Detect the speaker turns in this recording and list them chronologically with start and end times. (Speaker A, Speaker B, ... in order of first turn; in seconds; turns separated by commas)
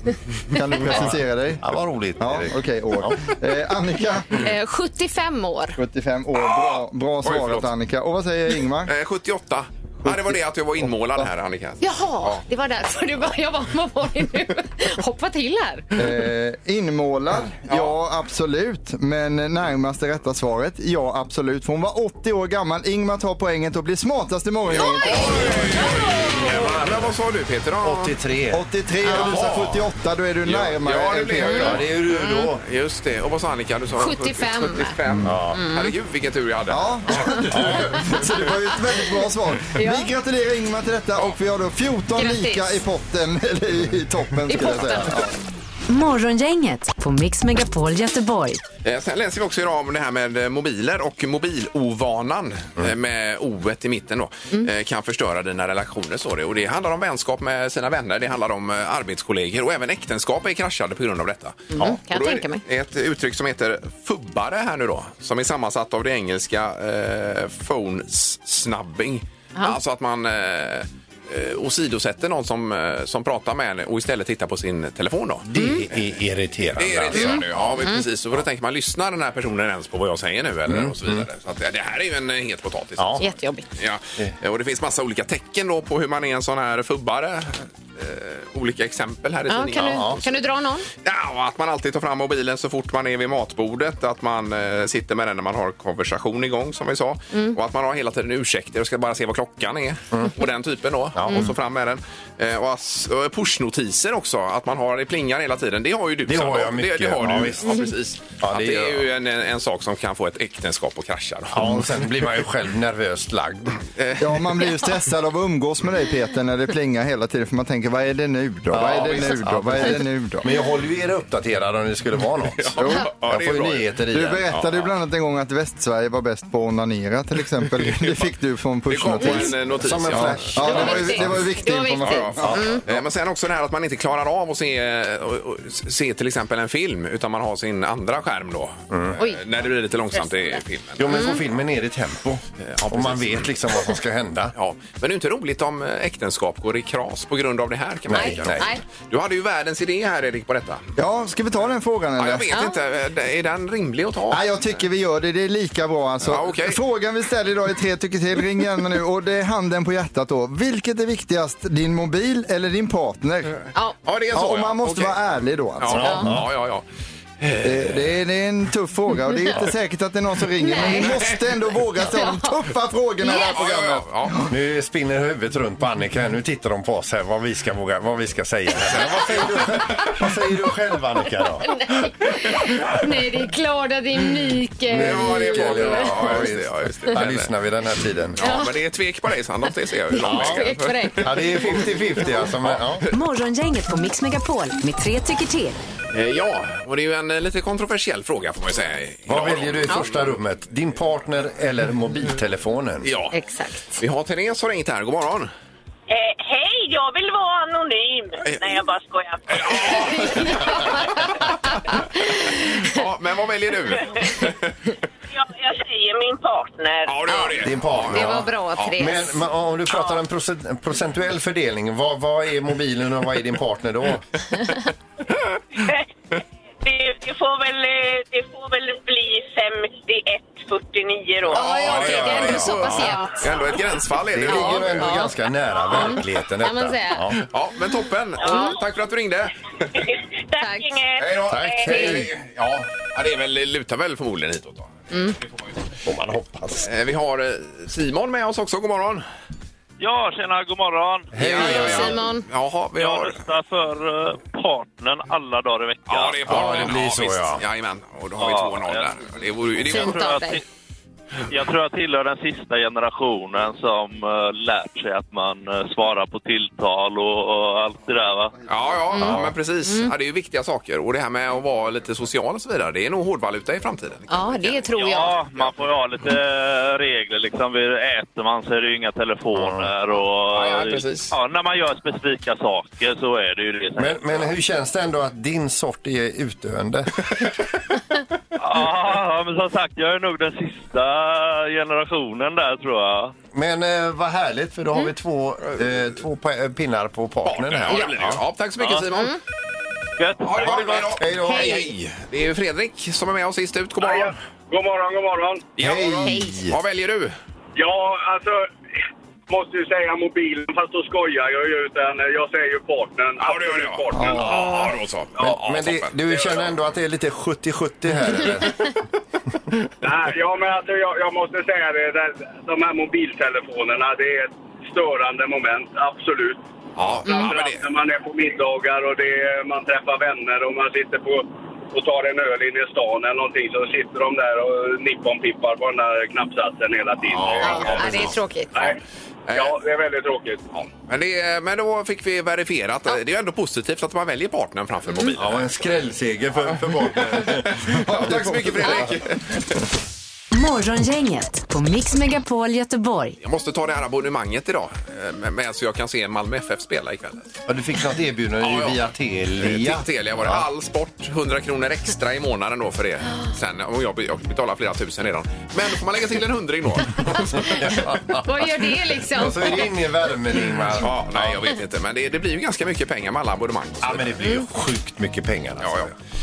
Speaker A: 0.5-1.6, Speaker B: 0.9-3.3, Speaker A: 2.2-4.5, Speaker C: 4.3-5.8, Speaker A: 5.8-8.9, Speaker D: 6.5-7.7, Speaker D: 8.9-12.4, Speaker A: 10.0-11.3, Speaker C: 11.8-15.9, Speaker A: 16.0-25.8, Speaker D: 17.7-18.0, Speaker D: 24.7-28.1, Speaker B: 25.5-27.1, Speaker B: 27.8-28.6, Speaker A: 28.5-31.8, Speaker C: 29.1-29.3, Speaker D: 29.1-29.8, Speaker D: 30.4-31.8, Speaker B: 31.4-32.6, Speaker C: 31.6-32.4, Speaker D: 32.6-37.5, Speaker C: 34.0-35.0, Speaker B: 35.2-35.6, Speaker C: 35.5-35.9, Speaker A: 36.7-45.4, Speaker B: 37.5-38.2, Speaker C: 39.7-40.1, Speaker C: 42.2-42.8, Speaker C: 44.5-45.2, Speaker E: 45.9-48.6, Speaker D: 48.8-76.1, Speaker C: 61.7-62.6, Speaker B: 75.5-77.5, Speaker C: 75.6-75.8, Speaker D: 76.8-83.3, Speaker C: 77.1-78.0, Speaker B: 80.7-81.2, Speaker B: 83.0-83.2, Speaker C: 83.2-83.7, Speaker D: 83.8-90.4, Speaker C: 89.5-90.9, Speaker B: 89.8-90.2, Speaker D: 91.0-111.8, Speaker B: 101.2-101.6, Speaker B: 106.3-107.7, Speaker C: 107.6-107.9, Speaker B: 108.4-109.1, Speaker B: 111.5-113.8, Speaker D: 114.0-114.7, Speaker A: 114.2-120.5, Speaker B: 118.7-124.5, Speaker D: 118.8-119.2, Speaker D: 122.6-123.9, Speaker A: 122.8-123.1, Speaker A: 124.1-132.8, Speaker D: 124.5-124.9, Speaker D: 127.8-128.3, Speaker D: 128.9-131.1, Speaker C: 129.2-129.6, Speaker B: 129.8-131.5, Speaker C: 130.6-132.8, Speaker D: 132.0-141.4, Speaker B: 132.4-132.8, Speaker B: 138.9-139.2, Speaker C: 139.2-139.4, Speaker C: 140.1-141.4, Speaker B: 141.0-144.6, Speaker D: 142.6-143.5, Speaker D: 144.6-150.8, Speaker B: 148.1-148.7, Speaker C: 148.1-148.8, Speaker A: 151.0-152.5, Speaker D: 152.2-154.4, Speaker C: 152.5-152.8, Speaker A: 154.3-163.6, Speaker D: 156.2-156.8, Speaker D: 164.1-165.2, Speaker A: 164.3-166.4, Speaker D: 165.8-166.8, Speaker B: 165.9-166.5, Speaker D: 167.4-168.2, Speaker A: 167.6-174.5, Speaker C: 170.6-171.2, Speaker C: 172.1-172.5, Speaker C: 173.2-173.6, Speaker D: 173.3-174.3, Speaker B: 174.5-181.8, Speaker C: 181.7-186.1, Speaker B: 184.9-188.4, Speaker D: 184.9-187.5, Speaker D: 188.4-191.6, Speaker C: 188.4-188.8, Speaker C: 190.1-191.8, Speaker B: 190.2-193.1, Speaker D: 192.3-192.9, Speaker E: 193.1-195.8, Speaker D: 196.1-200.3, Speaker B: 199.3-203.1, Speaker D: 203.0-203.3, Speaker C: 203.3-204.0, Speaker D: 204.0-205.5, Speaker F: 206.1-210.2, Speaker D: 208.4-208.8, Speaker D: 209.5-211.8, Speaker C: 209.9-213.0, Speaker D: 212.8-214.7, Speaker F: 215.3-217.2, Speaker D: 217.1-219.1, Speaker B: 217.6-224.2, Speaker C: 218.1-219.3, Speaker F: 225.8-226.0, Speaker F: 226.8-231.8, Speaker C: 231.5-233.5, Speaker D: 231.5-235.2, Speaker B: 231.6-233.1, Speaker B: 234.3-237.4, Speaker C: 234.5-235.3, Speaker C: 235.9-237.3, Speaker D: 237.5-239.5, Speaker F: 238.4-238.7, Speaker C: 238.5-238.8, Speaker F: 239.9-242.0, Speaker C: 240.6-240.9, Speaker D: 241.2-244.9, Speaker B: 241.5-242.3, Speaker C: 245.1-245.4, Speaker B: 246.1-246.9, Speaker D: 246.8-249.3, Speaker G: 250.0-251.9, Speaker B: 251.3-252.2, Speaker D: 251.4-253.4, Speaker C: 251.5-252.4, Speaker G: 253.0-256.8, Speaker D: 256.1-260.2, Speaker B: 256.5-257.6, Speaker G: 258.4-260.6, Speaker C: 259.9-260.6, Speaker G: 261.5-268.6, Speaker D: 268.7-274.9, Speaker B: 269.2-269.6, Speaker C: 269.9-270.1, Speaker C: 274.3-275.4, Speaker G: 275.0-284.5, Speaker B: 279.5-279.9, Speaker D: 280.5-281.3, Speaker B: 284.0-287.1, Speaker G: 288.6-293.3, Speaker B: 293.5-298.4, Speaker D: 297.4-299.4, Speaker C: 299.1-299.4, Speaker G: 300.2-301.0, Speaker D: 300.4-304.4, Speaker B: 300.6-301.9, Speaker C: 301.5-301.9, Speaker H: 304.0-305.8, Speaker D: 305.8-307.4, Speaker B: 305.8-306.7, Speaker C: 306.3-306.6, Speaker H: 307.8-308.7, Speaker H: 309.5-314.5, Speaker D: 313.4-316.6, Speaker A: 314.1-314.9, Speaker B: 314.3-314.7, Speaker B: 315.4-318.9, Speaker H: 320.0-326.6, Speaker D: 327.0-327.8, Speaker H: 327.2-338.1, Speaker C: 327.3-327.5, Speaker B: 337.3-338.3, Speaker C: 337.6-339.0, Speaker D: 337.6-338.2, Speaker H: 338.7-339.0, Speaker D: 339.5-339.8, Speaker H: 339.5-340.6, Speaker D: 340.7-345.8, Speaker B: 345.4-349.1, Speaker D: 347.1-349.7, Speaker A: 348.1-349.1, Speaker E: 350.5-353.4, Speaker D: 353.4-357.5, Speaker B: 357.7-360.7, Speaker D: 358.6-359.0, Speaker D: 359.6-367.7, Speaker B: 367.4-371.6, Speaker C: 368.3-369.9, Speaker D: 371.0-374.2, Speaker B: 374.0-376.1, Speaker D: 375.8-376.1